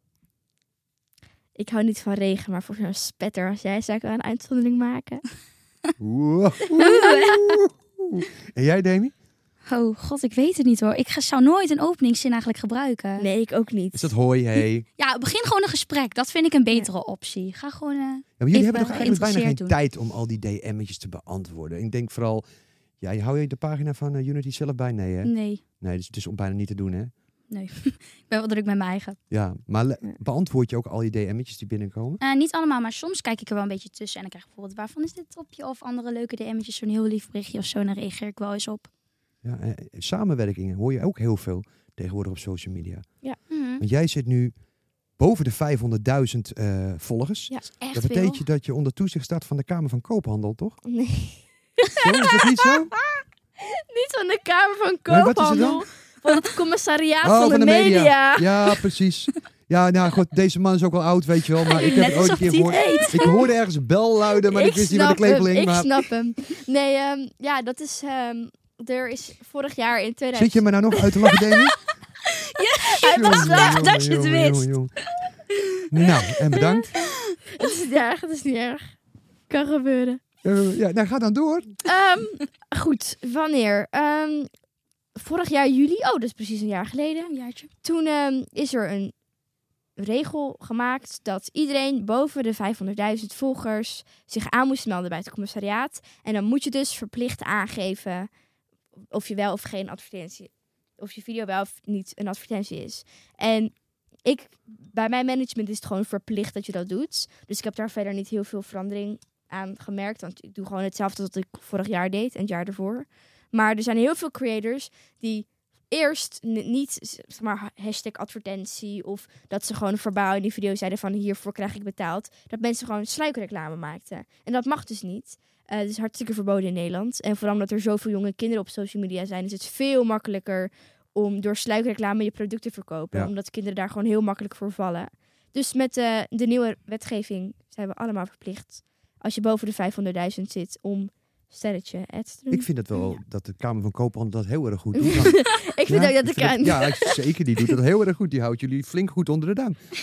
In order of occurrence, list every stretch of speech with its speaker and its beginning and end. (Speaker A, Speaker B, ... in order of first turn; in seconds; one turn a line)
Speaker A: 1.6-5.2
Speaker B: 6.0-9.1
Speaker C: 6.8-7.6
Speaker C: 9.7-13.2
Speaker A: 13.2-14.1
Speaker B: 13.9-14.8
Speaker C: 15.0-19.7
Speaker B: 18.4-22.4
Speaker B: 23.0-27.1
Speaker C: 25.2-25.6
Speaker C: 27.5-29.2
Speaker B: 29.3-32.2
Speaker C: 32.2-38.9
Speaker B: 39.4-43.0
Speaker C: 43.5-43.8
Speaker B: 43.8-44.5
Speaker B: 45.2-50.8
Speaker C: 47.8-48.4
Speaker A: 50.8-58.8
Speaker B: 52.0-52.9
Speaker B: 55.1-55.8
Speaker B: 57.2-65.9
Speaker C: 61.7-63.3
Speaker A: 62.6-63.5
Speaker A: 64.4-71.1
Speaker B: 70.3-71.8
Speaker C: 72.3-75.8
Speaker A: 72.9-73.9
Speaker B: 73.1-74.9
Speaker B: 75.9-77.0
Speaker C: 77.0-77.4
Speaker A: 77.5-78.9
Speaker A: 79.5-80.2
Speaker B: 80.4-81.8
Speaker A: 81.8-84.5
Speaker A: 85.2-87.3
Speaker C: 87.2-87.7
Speaker A: 87.8-89.1
Speaker A: 90.0-98.3
Speaker A: 99.1-103.7
Speaker A: 104.2-142.7
Speaker B: 142.5-149.8
Speaker A: 144.9-147.2